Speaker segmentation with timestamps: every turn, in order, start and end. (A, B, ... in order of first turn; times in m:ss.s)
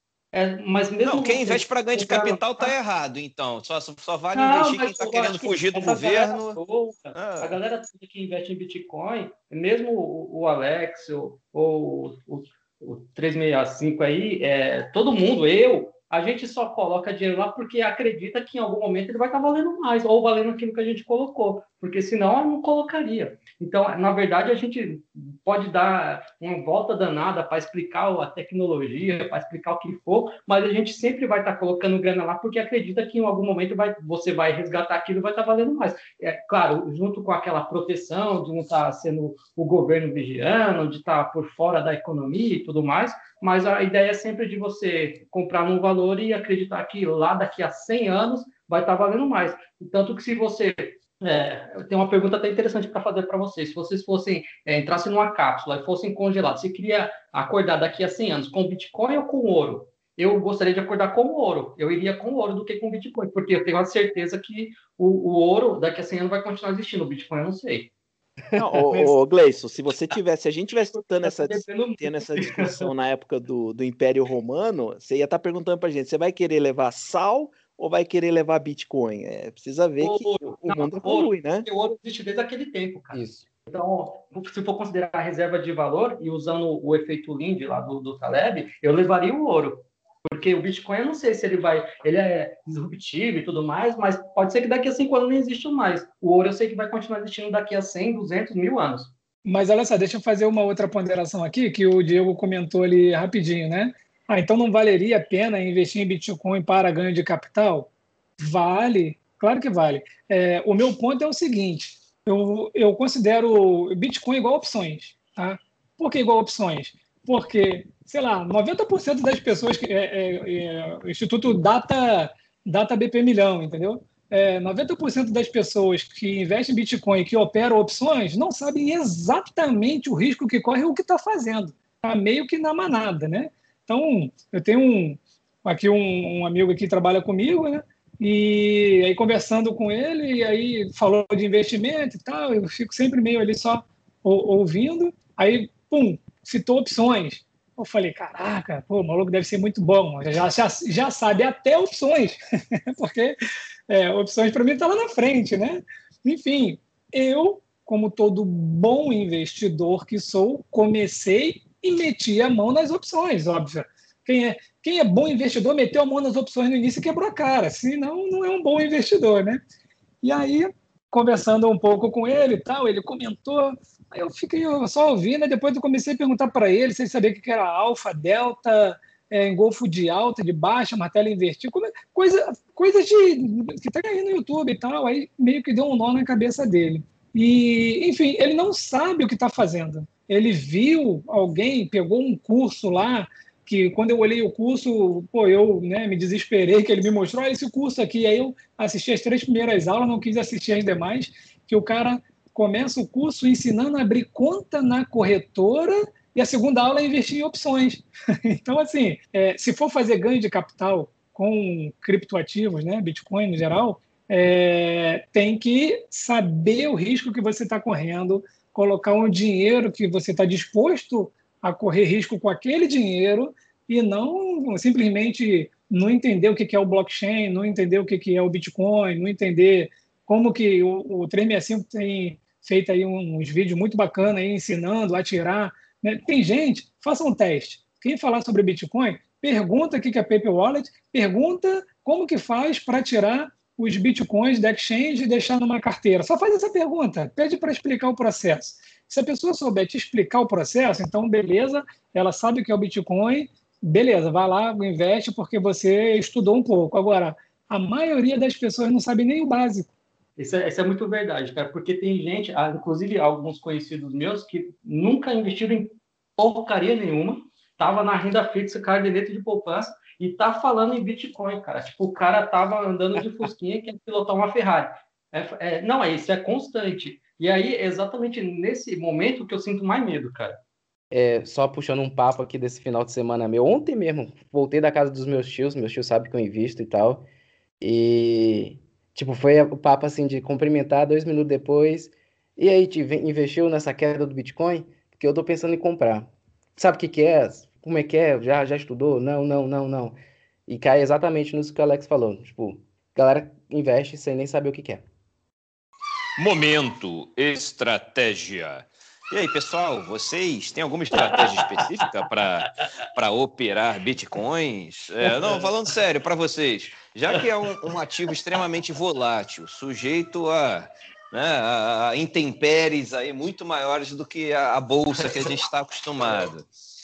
0:00.3-0:02.7 A
0:01.0-0:06.6 B
0:04.3-1:07.9 A
0:07.1-0:07.5 B
1:08.6-1:21.7 C
1:10.9-1:12.9 A
1:20.0-1:39.1 A
1:23.1-1:23.4 D
1:39.4-2:33.4 E
2:33.9-2:49.6 E
2:50.2-4:19.9 E
4:20.4-4:40.6 A
4:41.1-4:47.2 D
4:47.8-5:00.2 D
5:00.7-5:05.0 D
5:06.4-5:26.7 B
5:11.1-5:11.8 A
5:15.2-5:15.7 A
5:25.2-5:25.5 A